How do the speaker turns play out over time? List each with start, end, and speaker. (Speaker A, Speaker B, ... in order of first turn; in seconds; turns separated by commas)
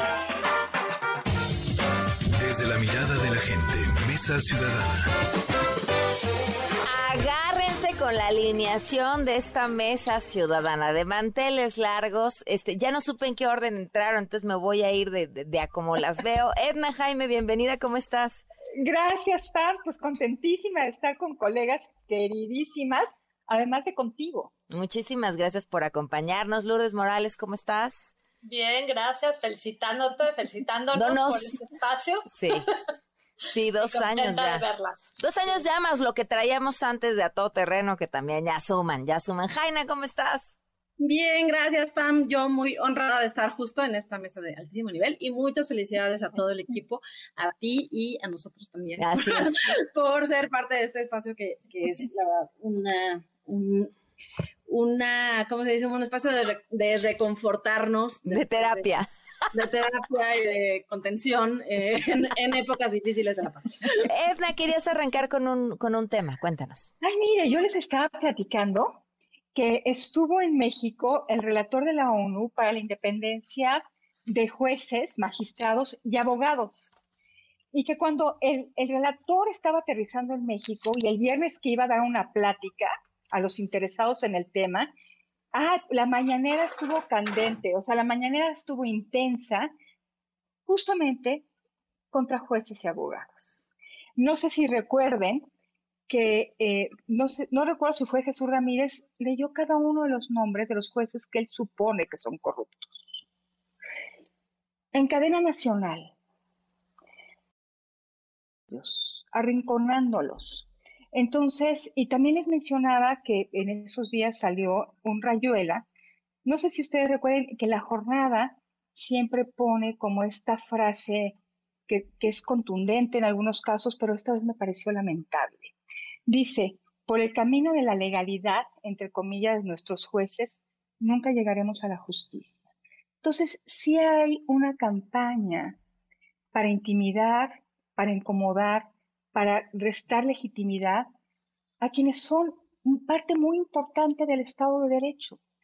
Speaker A: 2.4-5.0, Speaker B: 6.9-18.4, Speaker C: 18.8-24.5, Speaker B: 24.7-28.1, Speaker D: 28.4-32.7, Speaker B: 30.9-31.6, Speaker B: 32.3-32.6, Speaker B: 33.5-34.6, Speaker D: 33.9-35.0, Speaker B: 35.2-40.5, Speaker E: 41.0-53.9, Speaker B: 49.0-49.7, Speaker E: 54.7-58.9, Speaker B: 58.2-59.1, Speaker E: 59.5-64.1, Speaker B: 64.0-66.9, Speaker C: 67.0-69.0, Speaker C: 69.5-76.9, Speaker C: 77.7-84.9, Speaker C: 85.5-89.7, Speaker C: 90.7-91.5, Speaker C: 92.1-95.5, Speaker C: 96.1-103.2, Speaker C: 104.9-106.1, Speaker C: 108.7-115.8, Speaker C: 116.4-121.3, Speaker C: 121.9-125.7, Speaker C: 126.3-132.6, Speaker C: 133.2-135.8, Speaker C: 136.5-141.1, Speaker C: 141.8-145.4